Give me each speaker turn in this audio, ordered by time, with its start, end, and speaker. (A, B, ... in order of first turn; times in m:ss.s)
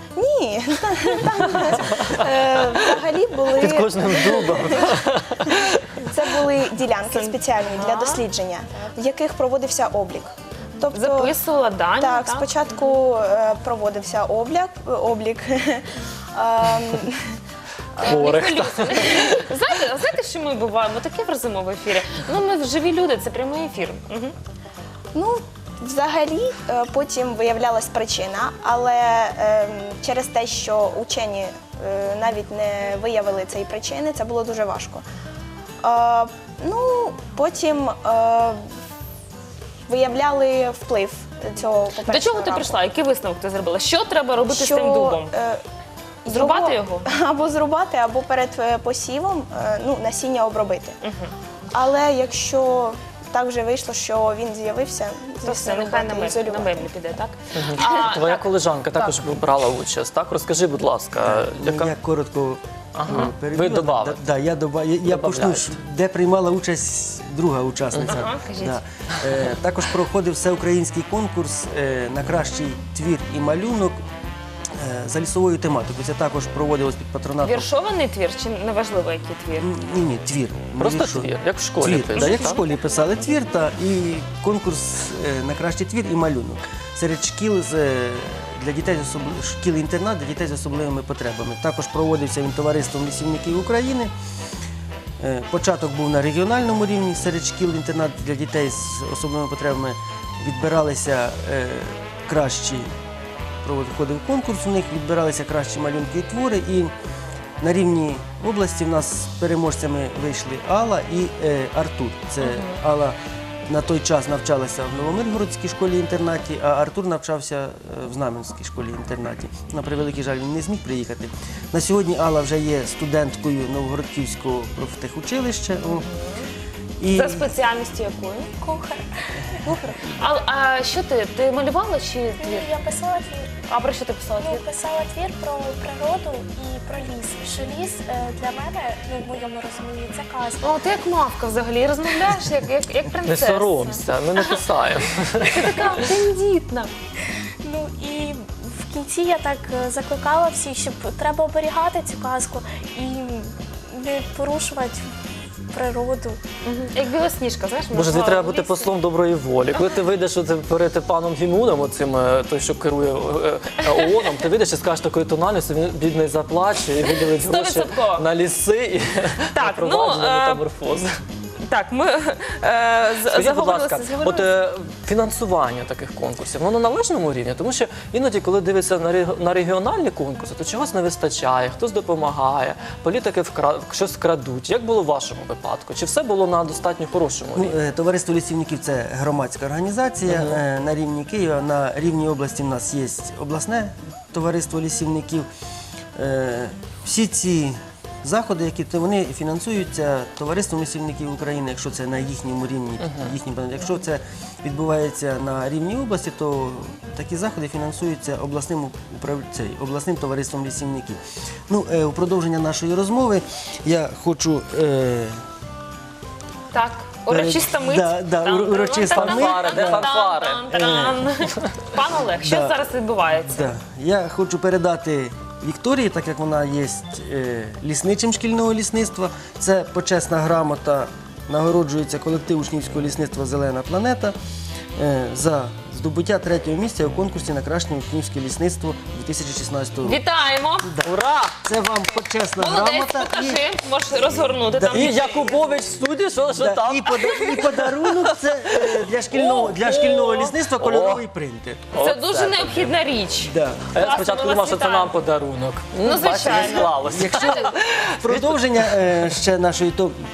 0:00.2-0:04.9 A
0:01.9-0:02.2 B
0:03.5-0:05.8 B
0:06.0-0:11.3 A
0:07.1-0:08.2 C
0:10.9-0:12.9 C
0:12.0-0:17.4 A
0:18.0-0:19.4 B
0:18.0-0:24.3 C
0:25.1-0:35.0 A
0:35.8-0:38.7 A
0:39.9-0:42.8 A
0:42.1-0:45.3 C
0:44.4-0:45.6 A
0:46.2-0:51.0 A
0:46.3-0:47.1 C
0:51.0-0:51.3 C
0:51.7-0:56.9 A
0:55.4-0:59.2 C
0:57.5-1:01.9 B
1:01.2-1:14.0 D
1:02.9-1:04.2 B
1:05.0-1:05.8 B
1:07.9-1:08.2 B
1:08.0-1:08.8 C
1:14.7-1:17.7 D
1:17.4-1:19.7 C
1:19.6-1:34.1 D
1:20.8-1:22.6 B
1:22.2-1:22.6 C
1:35.2-1:42.9 D
1:43.6-1:46.9 D
1:47.6-2:06.1 D
1:52.4-1:52.8 C
2:05.9-2:06.5 C
2:07.0-2:07.5 D
2:07.1-2:08.5 C
2:08.6-2:09.9 E
2:10.0-2:12.7 C
2:12.4-2:13.6 E
2:13.7-2:14.6 C
2:14.4-2:20.8 E
2:20.6-2:24.6 C
2:23.2-2:25.9 B
2:25.4-2:26.9 C
2:27.6-2:35.1 E
2:35.7-2:36.4 E
2:36.6-2:39.0 C
2:37.9-2:51.1 B
2:43.9-2:44.3 C
2:47.0-2:48.3 C
2:49.5-2:51.1 C
2:51.6-2:54.5 C
2:53.3-3:07.8 B
3:07.5-3:15.5 D
3:10.3-3:10.6 B
3:16.2-3:35.3 D
3:23.0-3:23.3 B
3:36.7-3:43.8 C
3:37.3-3:40.1 D
3:39.1-3:40.6 B
3:40.7-3:41.3 D
3:42.3-3:54.4 D
3:55.0-4:00.2 D
4:00.0-4:00.9 C
4:00.8-4:01.1 D
4:01.0-4:01.6 B
4:01.6-4:03.6 D
4:02.6-4:05.6 C
4:04.7-4:05.3 D
4:04.9-4:11.2 B
4:06.5-4:11.9 D
4:11.9-4:13.0 B
4:11.9-4:15.2 C
4:13.4-4:13.9 D
4:13.9-4:19.2 B
4:16.0-4:17.6 C
4:16.4-4:20.2 D